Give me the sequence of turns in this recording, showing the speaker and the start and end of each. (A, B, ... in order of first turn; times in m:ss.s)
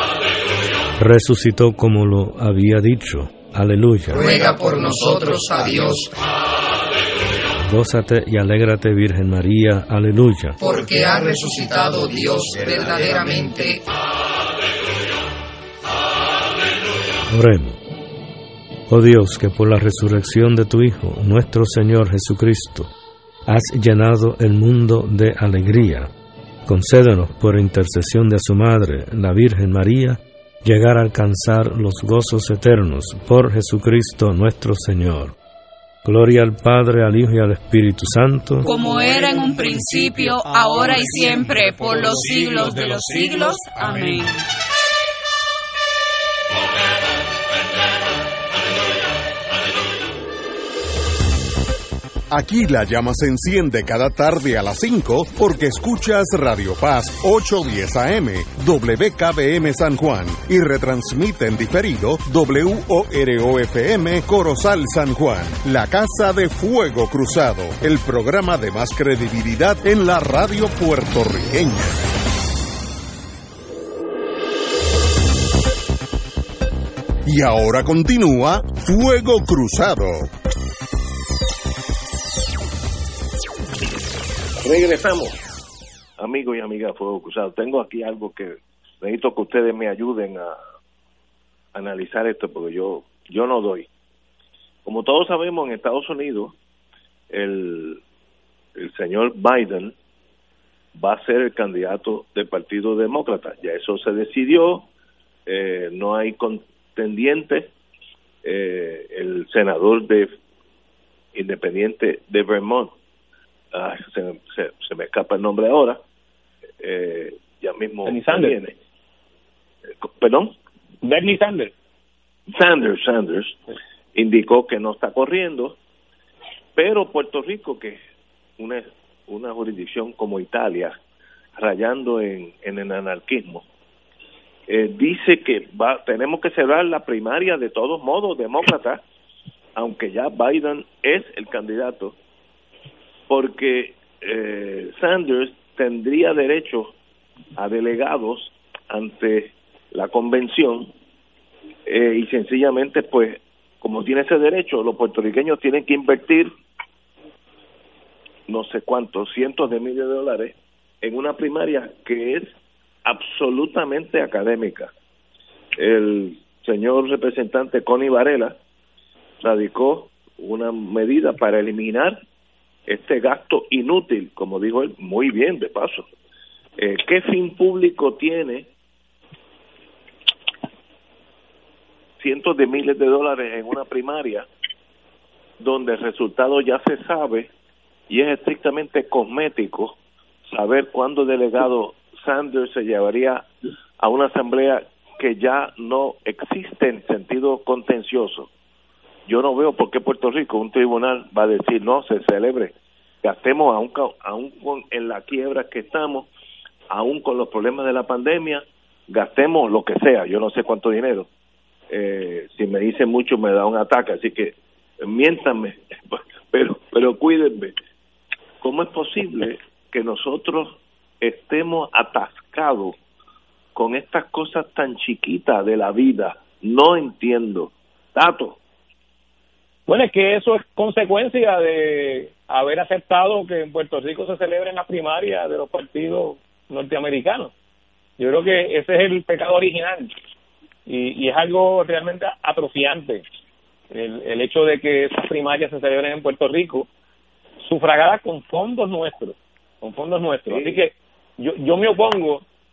0:01.0-0:04.2 A
0:04.1-0:06.1 B
0:07.6-0:10.6 A
0:10.6-0:13.8 B
0:17.3-0:17.8 A
0:18.9-0:22.9 A
0:23.5-0:26.1 A
0:26.7-0:35.3 A
0:36.0-0:38.7 A
0:38.6-0:44.4 C
0:52.3-1:12.0 D
1:17.3-1:20.3 D
1:24.6-1:25.4 E
1:26.2-1:30.6 E
1:31.7-1:33.9 E
1:34.8-1:36.6 E
1:37.3-1:38.0 E
1:38.8-1:39.9 E
1:41.0-1:44.9 E
1:45.5-1:47.7 E
1:48.4-1:50.3 E
1:51.3-1:52.9 E
1:53.7-1:56.0 E
1:56.8-1:58.8 E
1:58.1-1:58.6 F
2:00.0-2:00.6 E
2:01.0-2:01.7 F
2:02.5-2:03.6 E
2:04.2-2:05.8 E
2:06.8-2:08.0 E
2:08.6-2:11.0 E
2:11.6-2:13.6 E
2:14.7-2:19.0 E
2:19.8-2:22.2 E
2:23.3-2:27.0 E
2:27.6-2:30.9 E
2:31.9-2:36.5 E
2:38.5-2:44.9 E
2:45.8-2:48.6 E
2:49.4-2:52.2 E
2:52.9-2:56.1 E
2:56.8-2:58.7 E
3:02.2-3:04.5 E
3:05.6-3:07.5 E
3:08.1-3:10.0 E
3:10.5-3:13.5 E
3:14.0-3:18.5 E
3:19.3-3:26.3 E
3:26.9-3:31.3 E
3:31.9-3:37.8 E
3:38.6-3:43.0 E
3:43.8-3:48.6 E
3:49.9-3:57.5 F
3:58.2-4:00.1 F
4:00.9-4:03.2 F
4:03.9-4:06.9 F
4:07.6-4:12.4 F
4:10.5-4:10.8 E